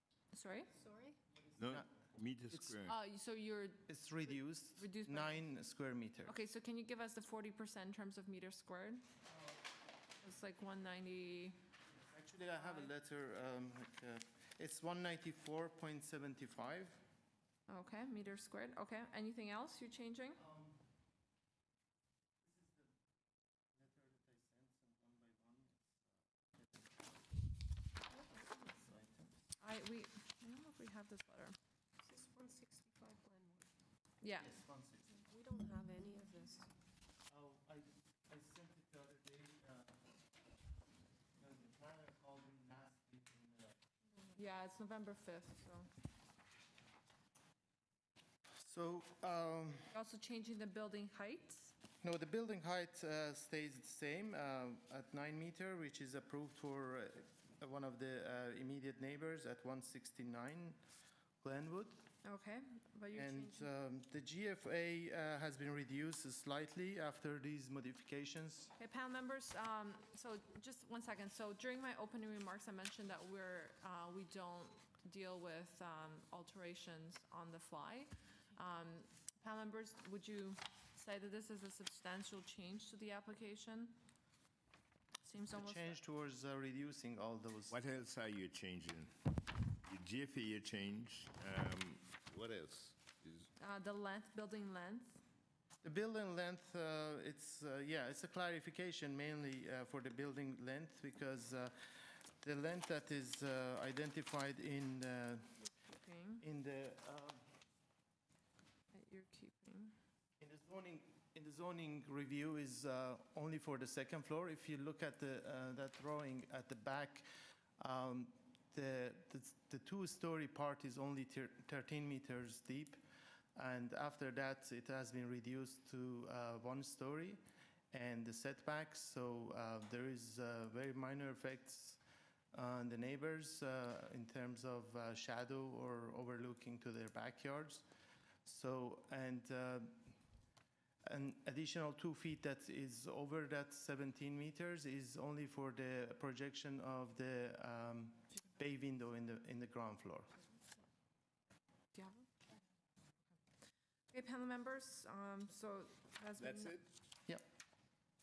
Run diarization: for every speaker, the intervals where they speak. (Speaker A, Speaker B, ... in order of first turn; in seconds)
Speaker A: 0.3-0.7, 2.9-3.9, 4.8-5.4, 6.3-9.1, 10.2-11.6, 17.7-20.4, 29.6-31.6, 34.2-34.5, 44.3-45.9, 49.9-51.8, 62.2-63.7, 68.8-84.0, 85.2-86.0, 93.6-95.2, 105.6-106.4, 108.9-109.9, 151.9-152.3, 154.1-156.8
Speaker B: 0.7-1.2, 32.0-33.7, 35.1-36.7
Speaker C: 1.6-3.0, 87.7-89.1, 89.8-93.5, 156.4-156.9
Speaker D: 3.9-6.4, 11.9-17.0, 20.4-20.8, 22.4-22.9, 23.8-27.4, 28.1-29.3, 34.4-35.1, 37.3-40.0, 41.4-43.8, 48.6-49.9, 52.0-60.8, 61.4-62.0, 63.1-68.8, 85.5-87.8, 95.8-105.6, 106.4-107.4, 110.4-117.3, 117.8-123.0, 123.6-127.4, 127.9-132.0, 132.5-137.8, 138.4-140.0, 141.0-150.4